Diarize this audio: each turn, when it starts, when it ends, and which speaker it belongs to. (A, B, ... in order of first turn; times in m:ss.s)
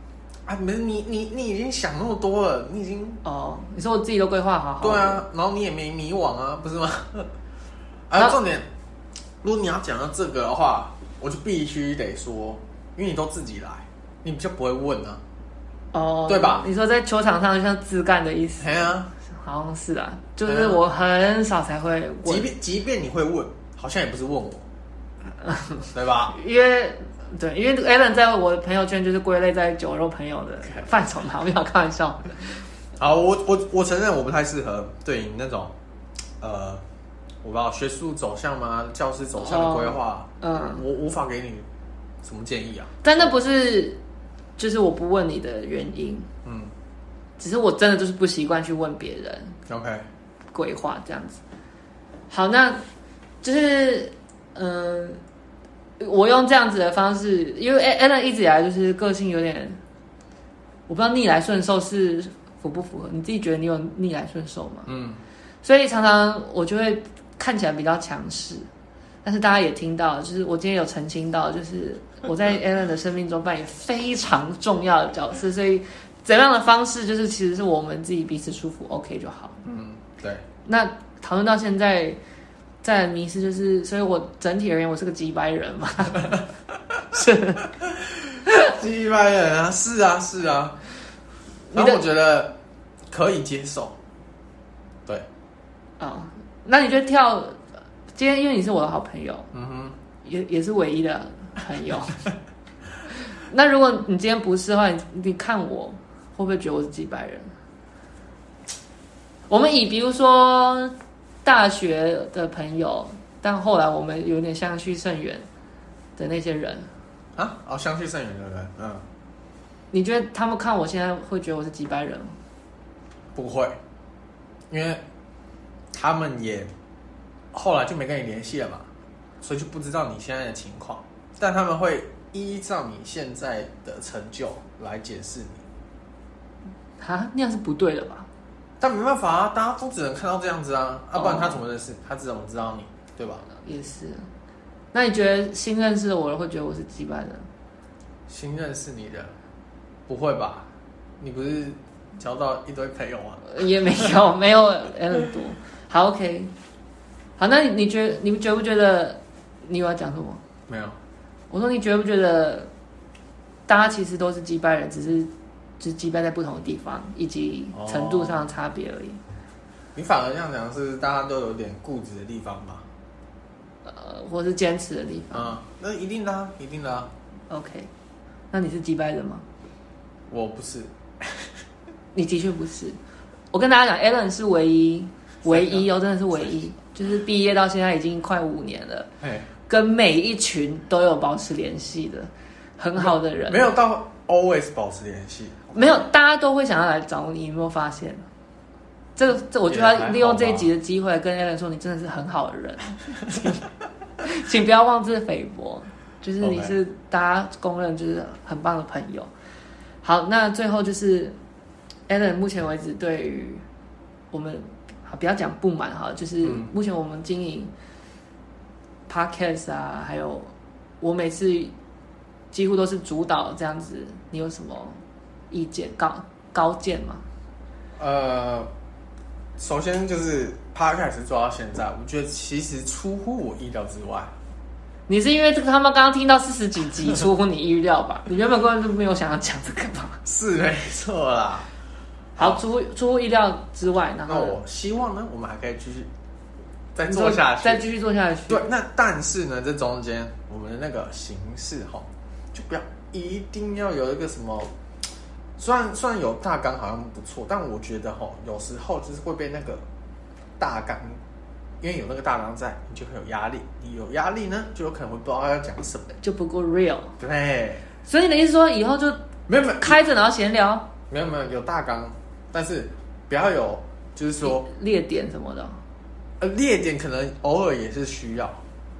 0:00.4-0:03.2 A
0:03.2-0:05.2 B
0:04.8-0:07.3 A
0:08.1-0:08.7 A
0:09.4-0:15.2 A
0:15.9-0:22.5 B
0:16.3-0:16.7 A
0:18.6-0:19.1 A
0:20.4-0:20.8 A
0:22.2-0:24.6 A
0:25.4-0:32.7 B
0:25.9-0:26.4 A
0:33.0-0:35.7 A
0:36.4-0:36.8 A
0:37.4-0:41.6 A
0:39.4-0:40.8 B
0:42.2-0:43.3 A
0:43.0-0:44.0 B
0:44.6-0:46.3 B
0:46.4-0:46.7 A
0:47.4-0:49.6 B
0:49.7-0:50.1 A
0:50.5-0:51.4 B
0:52.3-0:52.8 B
0:53.4-0:55.2 B
0:56.0-0:59.8 B
1:00.9-1:04.9 B
1:04.8-1:05.2 A
1:05.6-1:08.7 B
1:09.2-1:19.6 B
1:19.6-1:20.4 A
1:20.6-1:22.2 B
1:22.8-1:26.5 B
1:27.1-1:27.7 B
1:28.3-1:30.8 A
1:31.7-1:32.0 B
1:31.7-1:32.6 A
1:33.1-1:34.0 A
1:36.0-1:39.5 B
1:39.5-1:40.0 A
1:40.2-1:42.2 B
1:43.1-1:47.5 B
1:49.5-1:55.4 B
1:56.2-1:56.9 B
1:57.4-1:59.0 A
1:59.9-2:02.4 B
2:03.3-2:03.8 A
2:04.7-2:05.0 A
2:05.9-2:06.7 A
2:07.5-2:08.9 A
2:09.4-2:15.6 A
2:17.0-2:18.3 B
2:18.8-2:23.4 A
2:21.1-2:21.6 B
2:23.5-2:24.3 B
2:24.9-2:27.5 B
2:28.3-2:29.3 A
2:30.1-2:30.7 A
2:31.2-2:34.2 A
2:33.4-2:36.5 B
2:37.4-2:40.4 B
2:40.7-2:41.0 A
2:41.5-2:42.7 B
2:43.7-2:49.2 B
2:47.7-2:48.5 A
2:49.9-2:52.8 A
2:53.8-2:55.6 B
2:55.3-2:57.1 A
2:57.5-2:57.9 B
2:58.5-2:59.4 B
3:00.3-3:01.5 A
3:02.1-3:03.0 B
3:03.5-3:09.1 B
3:05.4-3:05.9 A
3:09.2-3:09.5 A
3:09.7-3:13.7 B
3:13.0-3:16.0 A
3:15.7-3:18.2 B
3:19.2-3:23.6 B
3:19.6-3:20.7 A
3:24.2-3:29.3 B
3:26.4-3:26.8 A
3:30.0-3:31.4 B
3:32.1-3:33.6 B
3:34.3-3:37.7 B
3:36.4-3:36.7 A
3:39.1-3:41.7 B
3:42.5-3:47.2 B
3:48.0-3:48.7 A
3:49.6-3:54.3 A
3:55.1-4:00.2 B
4:00.2-4:01.7 A
4:02.4-4:02.6 A
4:02.4-4:04.6 B
4:04.3-4:06.1 A
4:06.9-4:07.9 A
4:07.0-4:08.7 B
4:08.5-4:14.7 A
4:15.6-4:19.8 A
4:20.6-4:21.2 A
4:21.8-4:26.1 A
4:26.1-4:27.2 B
4:27.2-4:27.8 A
4:28.0-4:30.9 B
4:29.5-4:30.0 A
4:31.1-4:34.6 A
4:34.4-4:35.8 B
4:36.4-4:38.6 A